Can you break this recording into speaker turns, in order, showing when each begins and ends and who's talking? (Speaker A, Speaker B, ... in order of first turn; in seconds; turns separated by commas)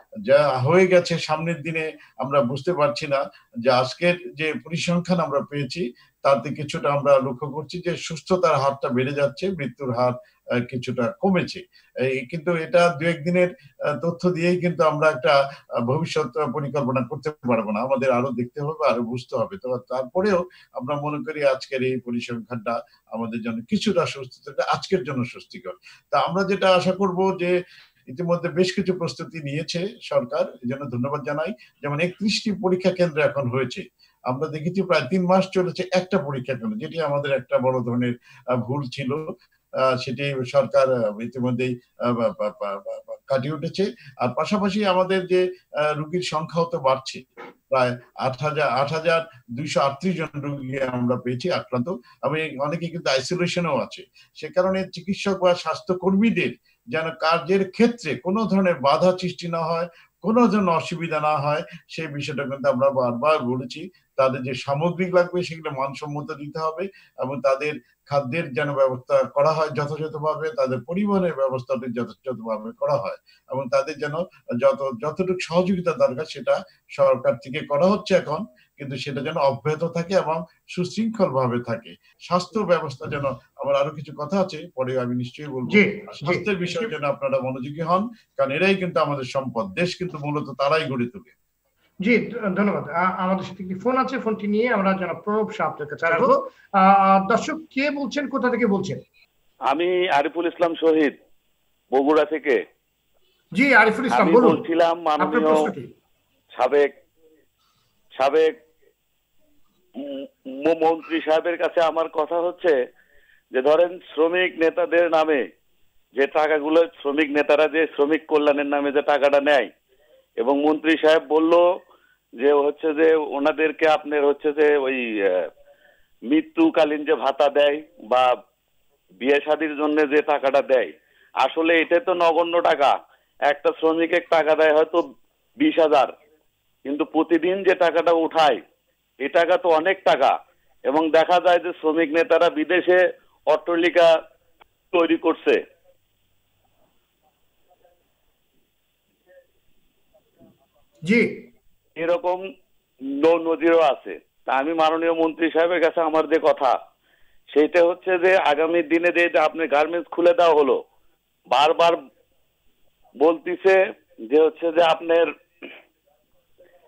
Speaker A: 0.3-10.1, Speaker A: 10.7-13.5, Speaker A: 14.0-15.3, Speaker A: 15.9-27.5, Speaker A: 28.1-38.1, Speaker A: 38.6-39.2, Speaker A: 40.0-45.4, Speaker A: 45.9-91.3, Speaker B: 85.7-86.9, Speaker B: 92.0-99.0, Speaker C: 99.7-101.1, Speaker C: 101.9-102.6, Speaker B: 103.5-104.6, Speaker C: 104.1-105.7, Speaker B: 105.2-105.9, Speaker C: 106.5-106.9, Speaker C: 108.2-108.5, Speaker C: 110.0-112.8, Speaker C: 113.5-115.4, Speaker C: 116.1-119.7, Speaker C: 120.4-121.6, Speaker C: 122.4-125.5, Speaker C: 126.3-128.3, Speaker C: 129.2-130.9, Speaker C: 131.4-132.9, Speaker C: 133.5-135.0, Speaker C: 135.6-136.1, Speaker C: 136.8-138.6, Speaker C: 139.2-140.3, Speaker C: 140.9-143.0, Speaker C: 143.5-144.1, Speaker C: 144.9-145.6, Speaker C: 151.9-152.4, Speaker C: 153.2-156.7, Speaker C: 157.5-160.8, Speaker C: 161.5-162.0, Speaker C: 163.2-163.8, Speaker C: 164.3-165.3